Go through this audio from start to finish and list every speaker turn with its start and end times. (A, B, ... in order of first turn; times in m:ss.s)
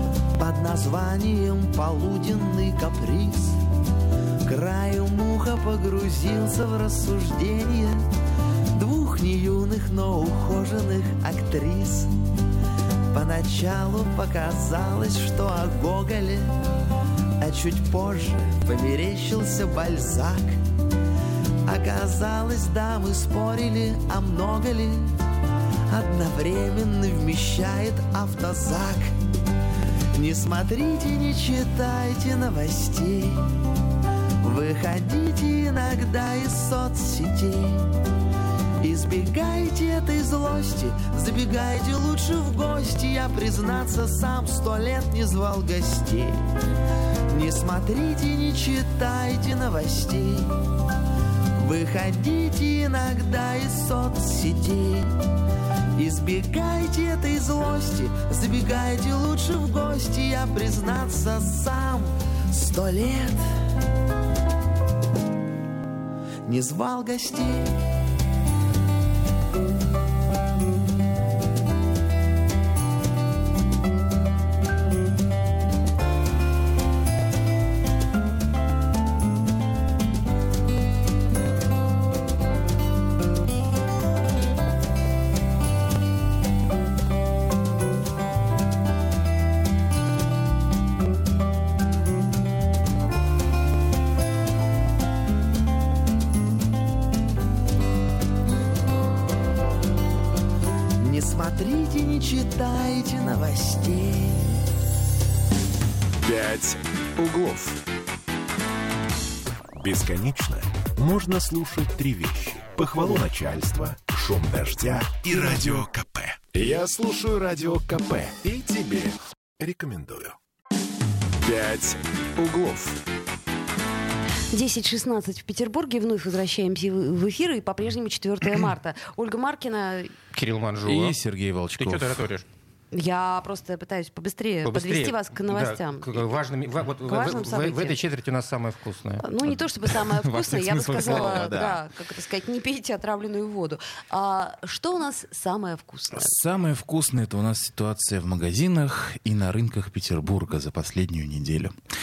0:00.3-0:03.6 A
0:04.4-0:08.0 A
0:08.7-0:12.1 A
0:13.1-0:16.6 A
0:17.4-0:20.6 A
0:21.6-0:25.1 A
0:25.9-0:29.1 A
0:30.1-0:33.6 A
0:34.4-0:37.9 A
0:38.8-0:46.4 A
0:47.3-0:50.6 A
0:51.6-0:55.2 A
0:56.0-1:03.4 A
1:06.4-1:07.8 A
1:41.0-1:44.6 A
1:46.2-1:47.8 B
1:49.8-2:00.4 B
2:01.4-2:03.0 B
2:04.5-2:10.1 C
2:10.3-2:11.2 D
2:10.8-2:12.3 E
2:11.8-2:12.5 D
2:12.9-2:16.2 C
2:14.6-2:19.2 D
2:17.0-2:18.0 C
2:19.2-2:26.3 C
2:19.5-2:21.8 E
2:21.0-2:21.5 D
2:26.1-2:31.7 E